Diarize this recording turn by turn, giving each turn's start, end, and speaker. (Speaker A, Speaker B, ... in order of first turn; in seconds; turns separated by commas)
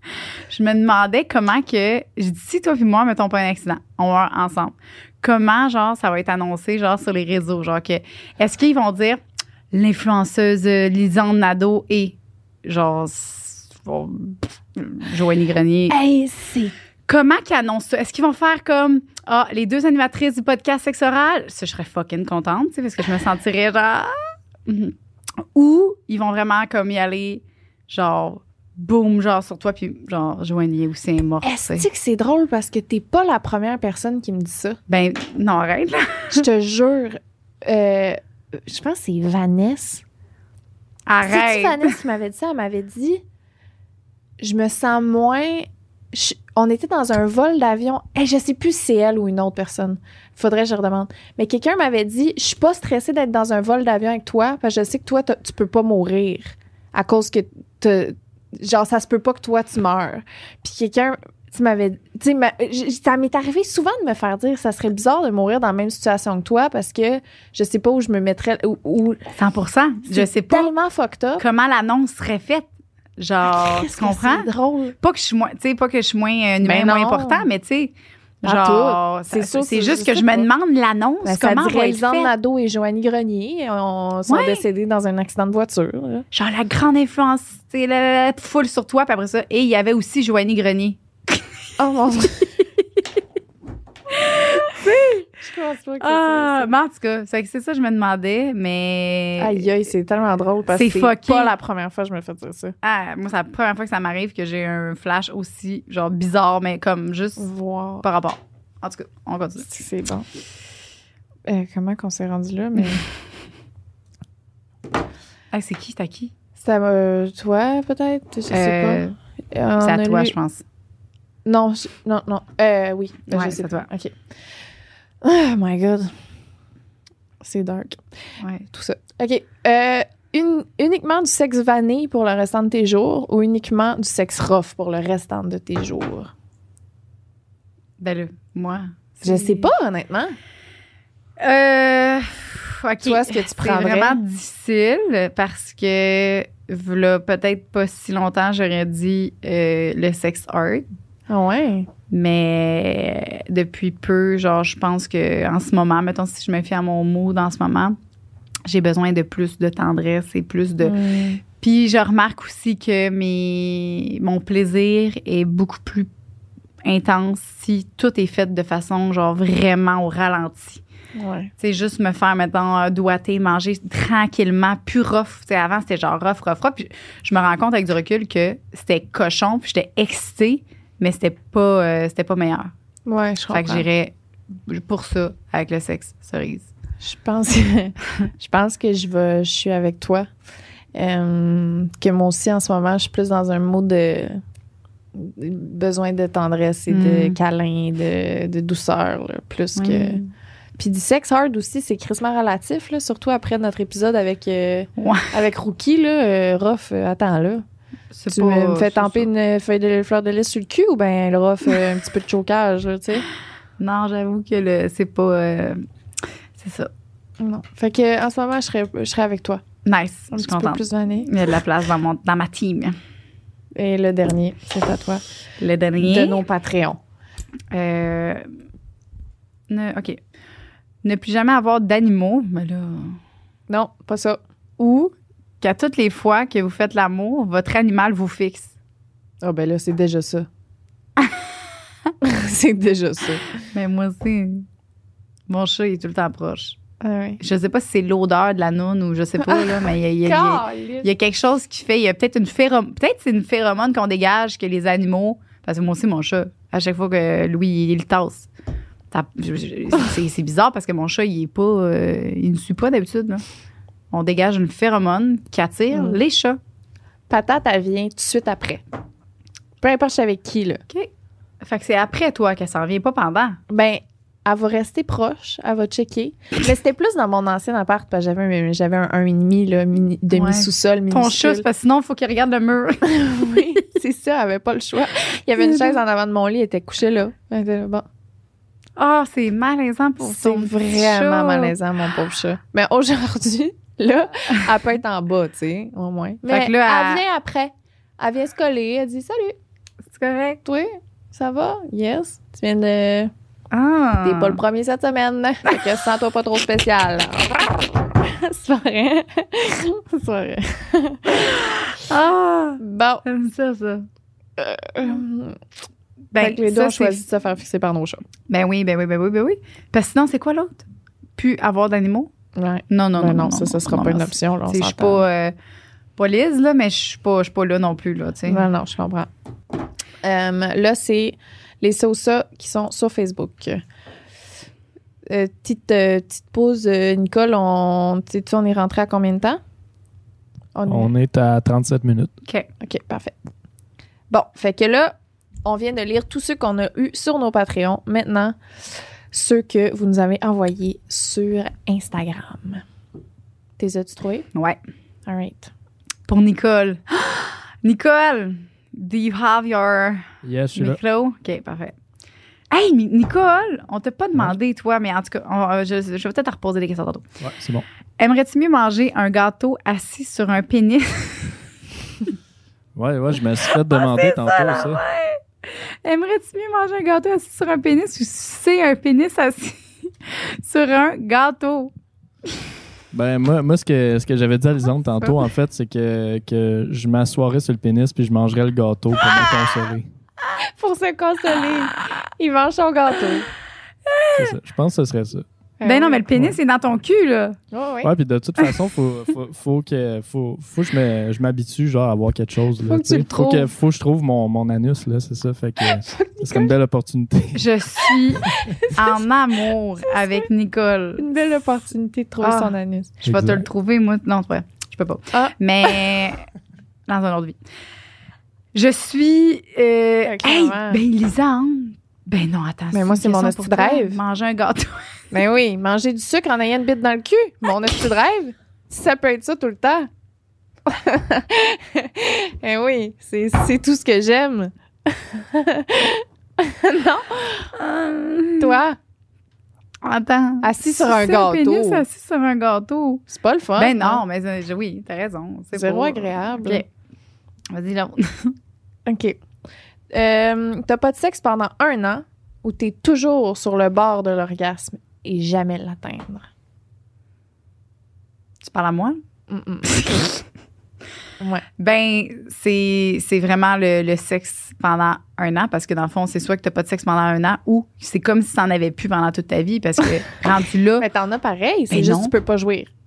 Speaker A: 0.5-15.9, Speaker B: 15.9-16.7, Speaker A: 17.1-31.9, Speaker B: 31.4-34.8, Speaker A: 34.9-36.4, Speaker B: 36.3-40.0, Speaker A: 41.1-41.9, Speaker B: 41.2-43.2, Speaker B: 44.4-69.2, Speaker A: 69.3-70.7, Speaker B: 70.1-71.4, Speaker A: 71.4-74.5, Speaker B: 73.5-74.9, Speaker A: 75.0-82.3, Speaker B: 76.6-77.5, Speaker B: 78.4-80.5, Speaker B: 81.2-86.2, Speaker A: 84.3-84.6, Speaker A: 86.3-91.4, Speaker B: 91.8-92.5, Speaker A: 94.1-95.3, Speaker B: 95.2-96.7, Speaker A: 96.0-99.7, Speaker B: 99.4-102.7, Speaker A: 100.7-101.5, Speaker A: 102.8-107.5, Speaker B: 107.4-108.0, Speaker A: 108.0-109.7, Speaker B: 109.6-110.3, Speaker B: 111.5-113.0, Speaker A: 115.5-116.3, Speaker B: 116.6-120.3, Speaker A: 118.5-119.1, Speaker A: 119.8-120.6, Speaker B: 121.4-124.1, Speaker A: 123.3-123.9, Speaker B: 125.2-126.2, Speaker B: 127.4-128.0, Speaker A: 128.4-128.7, Speaker B: 128.7-136.3, Speaker A: 138.0-139.7, Speaker B: 139.2-140.3, Speaker A: 141.4-150.9, Speaker B: 143.0-144.2, Speaker B: 151.3-151.9, Speaker A: 152.1-158.0, Speaker A: 158.7-161.0, Speaker B: 160.8-161.4, Speaker A: 161.5-166.1, Speaker A: 166.8-170.8, Speaker B: 171.2-171.5, Speaker A: 171.6-182.7, Speaker B: 183.1-183.8, Speaker A: 183.5-184.1, Speaker A: 184.7-186.7, Speaker B: 187.0-190.3, Speaker B: 190.9-194.4, Speaker B: 195.1-200.2, Speaker A: 196.9-197.4, Speaker A: 199.8-200.3, Speaker B: 200.8-207.6, Speaker A: 205.0-205.3, Speaker A: 208.1-209.3, Speaker B: 208.3-213.3, Speaker A: 213.8-215.8, Speaker A: 216.6-216.9, Speaker B: 217.4-219.6, Speaker A: 219.8-223.0, Speaker B: 220.3-221.3, Speaker B: 223.7-225.2, Speaker A: 225.6-226.4, Speaker B: 226.0-227.0, Speaker A: 227.7-228.5, Speaker A: 229.7-230.2, Speaker A: 231.0-233.2, Speaker B: 233.7-234.4, Speaker A: 234.8-238.7, Speaker B: 239.4-240.5, Speaker B: 242.2-243.5, Speaker A: 243.7-244.7, Speaker A: 245.5-246.8, Speaker B: 247.0-247.4, Speaker A: 247.4-258.5, Speaker B: 250.2-251.1, Speaker A: 259.1-263.4, Speaker A: 264.1-266.6, Speaker B: 265.9-266.2, Speaker B: 267.3-268.8, Speaker B: 269.8-270.8, Speaker A: 271.6-273.6, Speaker B: 273.7-281.6, Speaker A: 280.3-283.8, Speaker B: 283.0-288.1, Speaker A: 285.6-286.0, Speaker A: 289.0-291.8, Speaker B: 290.2-299.6, Speaker A: 296.4-297.2, Speaker A: 300.1-300.6, Speaker B: 300.6-303.3, Speaker A: 303.7-304.6, Speaker B: 304.2-311.6, Speaker A: 311.4-314.1, Speaker B: 312.8-313.2, Speaker B: 314.6-315.6, Speaker A: 316.3-317.2, Speaker B: 316.4-318.2, Speaker A: 318.5-320.8, Speaker A: 321.4-322.3, Speaker B: 322.6-325.2, Speaker A: 322.9-325.5, Speaker A: 326.1-328.6, Speaker B: 328.4-329.3, Speaker B: 330.2-333.8, Speaker B: 335.2-339.6, Speaker B: 340.7-341.1, Speaker C: 340.9-342.3, Speaker A: 342.4-342.7, Speaker B: 342.8-343.4, Speaker B: 344.3-348.6, Speaker B: 349.3-352.8, Speaker B: 353.8-354.5, Speaker A: 354.5-354.8, Speaker B: 355.2-355.7, Speaker A: 356.3-361.9, Speaker C: 360.4-361.0, Speaker A: 362.7-367.2, Speaker C: 367.4-367.9, Speaker A: 368.2-371.6, Speaker C: 372.9-375.0, Speaker A: 373.6-381.9, Speaker C: 383.1-390.1, Speaker B: 390.6-393.5, Speaker A: 394.1-394.6, Speaker C: 394.3-395.4, Speaker B: 395.8-396.2, Speaker A: 395.8-397.6, Speaker C: 396.3-396.6, Speaker B: 397.7-398.1, Speaker C: 398.0-407.7, Speaker B: 402.8-403.7, Speaker B: 405.9-406.7, Speaker A: 407.5-411.3, Speaker B: 408.4-409.1, Speaker B: 411.2-413.1, Speaker A: 412.4-416.4, Speaker C: 413.2-413.6, Speaker B: 415.3-416.0, Speaker A: 417.1-417.6, Speaker A: 418.7-425.2, Speaker B: 420.2-421.0, Speaker B: 422.9-424.2, Speaker B: 425.3-430.1, Speaker B: 430.9-437.7, Speaker A: 437.8-438.8, Speaker B: 438.6-439.0, Speaker A: 440.0-443.2, Speaker B: 440.6-442.0, Speaker B: 443.3-444.2, Speaker A: 443.8-446.8, Speaker B: 445.7-446.8, Speaker A: 447.7-448.6, Speaker B: 449.1-449.4, Speaker B: 450.1-456.5, Speaker A: 458.6-459.2, Speaker B: 459.5-460.0, Speaker A: 459.8-460.4, Speaker B: 461.4-461.6, Speaker A: 461.8-471.1, Speaker B: 471.0-472.9, Speaker A: 471.9-472.3